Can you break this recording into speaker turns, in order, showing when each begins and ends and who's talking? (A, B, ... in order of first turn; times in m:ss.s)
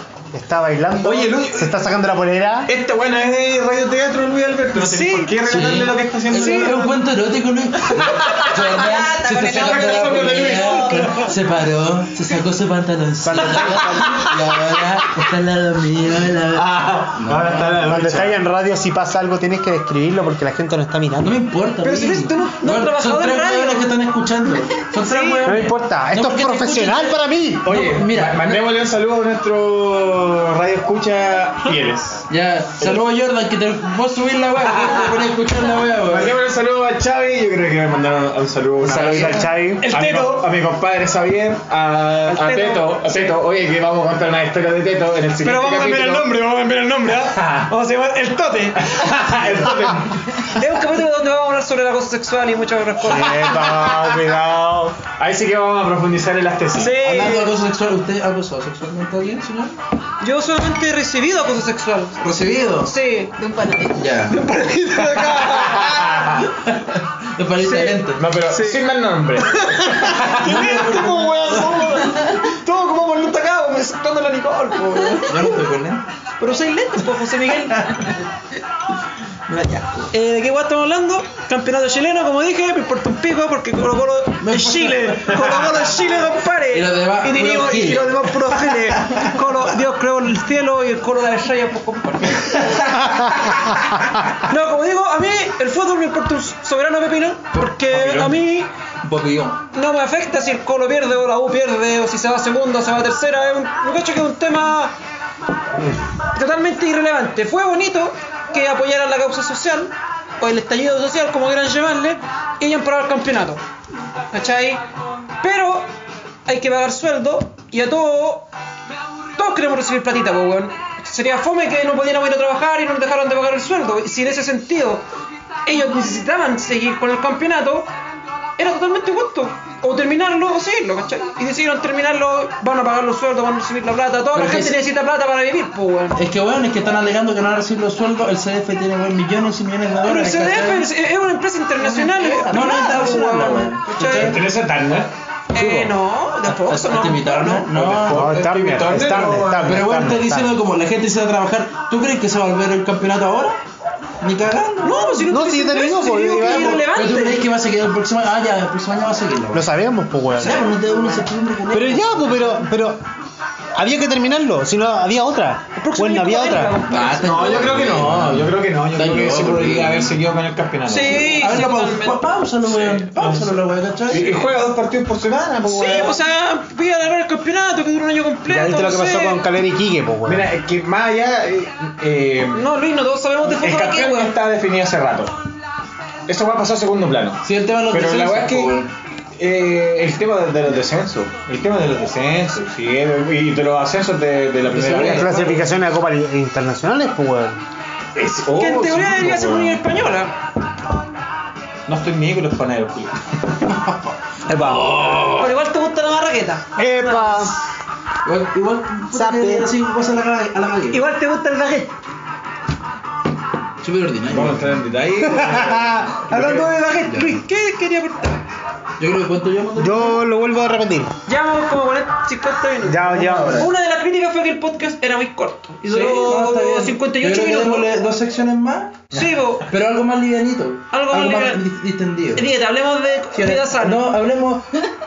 0:00.3-0:02.7 A
0:01.0-0:01.8 B
0:02.7-0:07.0 B
0:04.7-0:06.9 C
0:05.5-0:17.9 D
0:07.9-0:08.8 B
0:08.7-0:11.2 E
0:09.4-0:11.0 B
0:10.2-0:11.3 C
0:13.2-0:14.3 A
0:16.5-0:18.4 B
0:17.7-0:21.4 A
0:21.2-0:28.6 D
0:21.8-0:23.9 C
0:25.0-0:25.6 C
0:25.4-0:27.7 A
0:27.6-0:32.3 B
0:32.3-0:36.4 D
0:32.8-0:33.0 B
0:34.6-0:35.3 B
0:35.9-0:46.3 B
0:38.8-0:39.9 A
0:39.0-0:40.5 C
0:42.3-0:42.9 C
0:45.4-0:49.1 C
0:47.1-0:47.7 B
0:48.8-0:50.5 B
0:50.3-0:53.7 C
0:53.0-0:54.9 A
0:53.4-0:54.4 B
0:55.0-0:57.0 B
0:56.8-0:57.5 C
0:57.0-0:59.8 D
1:00.2-1:02.2 C
1:02.2-1:02.9 D
1:02.8-1:03.3 C
1:03.4-1:04.1 E
1:04.0-1:04.4 D
1:04.3-1:06.3 C
1:05.0-1:06.5 B
1:07.4-1:08.2 D
1:07.6-1:08.8 C
1:08.2-1:11.2 B
1:09.4-1:15.4 C
1:10.4-1:11.8 D
1:12.0-1:12.4 E
1:15.2-1:16.1 D
1:16.4-1:18.1 C
1:19.5-1:20.1 D
1:20.1-1:33.8 C
1:24.4-1:25.6 D
1:26.7-1:28.5 D
1:34.3-1:38.7 C
1:37.9-1:38.3 D
1:39.0-1:39.6 D
1:39.7-1:44.9 C
1:46.3-1:53.6 C
1:54.3-1:54.8 C
1:55.4-1:55.9 C
1:56.5-1:58.5 C
1:59.4-2:05.0 C
2:05.6-2:07.9 C
2:08.6-2:16.2 C
2:14.3-2:14.8 D
2:16.2-2:20.9 D
2:20.0-2:24.4 C
2:21.8-2:23.0 E
2:22.5-2:24.4 D
2:24.1-2:25.1 B
2:25.5-2:27.7 C
2:25.6-2:25.9 D
2:26.5-2:28.3 D
2:27.7-2:29.9 B
2:28.1-2:30.6 A
2:29.6-2:33.6 D
2:34.2-2:35.3 D
2:34.8-2:37.4 C
2:35.3-2:36.9 A
2:36.4-2:39.7 D
2:39.5-2:40.8 A
2:40.4-2:42.6 D
2:41.7-2:43.0 A
2:43.8-2:46.8 A
2:45.8-2:47.7 C
2:46.9-2:50.1 D
2:47.2-2:51.6 B
2:50.9-2:52.3 C
2:51.1-2:54.5 D
2:52.6-2:56.2 B
2:55.6-2:59.4 C
2:58.5-3:00.5 A
3:00.2-3:02.7 B
3:02.5-3:04.3 C
3:03.4-3:05.3 B
3:06.3-3:08.8 B
3:07.4-3:08.9 D
3:09.4-3:15.6 B
3:14.7-3:15.6 D
3:15.0-3:17.6 A
3:18.2-3:19.8 B
3:18.6-3:20.4 C
3:21.9-3:23.2 B
3:23.7-3:25.5 D
3:24.5-3:25.0 A
3:25.4-3:27.6 C
3:26.8-3:27.6 A
3:28.2-3:31.0 D
3:29.1-3:29.7 A
3:30.9-3:31.9 C
3:33.8-3:34.9 D
3:34.3-3:36.7 B
3:35.2-3:36.6 A
3:36.3-3:38.4 C
3:37.1-3:37.4 D
3:39.0-3:40.2 D
3:39.8-3:41.1 A
3:41.3-3:47.9 C
3:42.8-3:43.7 A
3:43.1-3:43.7 D
3:45.9-3:49.1 D
3:49.1-3:49.7 C
3:49.7-3:52.5 D
3:50.9-3:51.6 C
3:52.4-3:54.1 C
3:53.3-3:54.8 D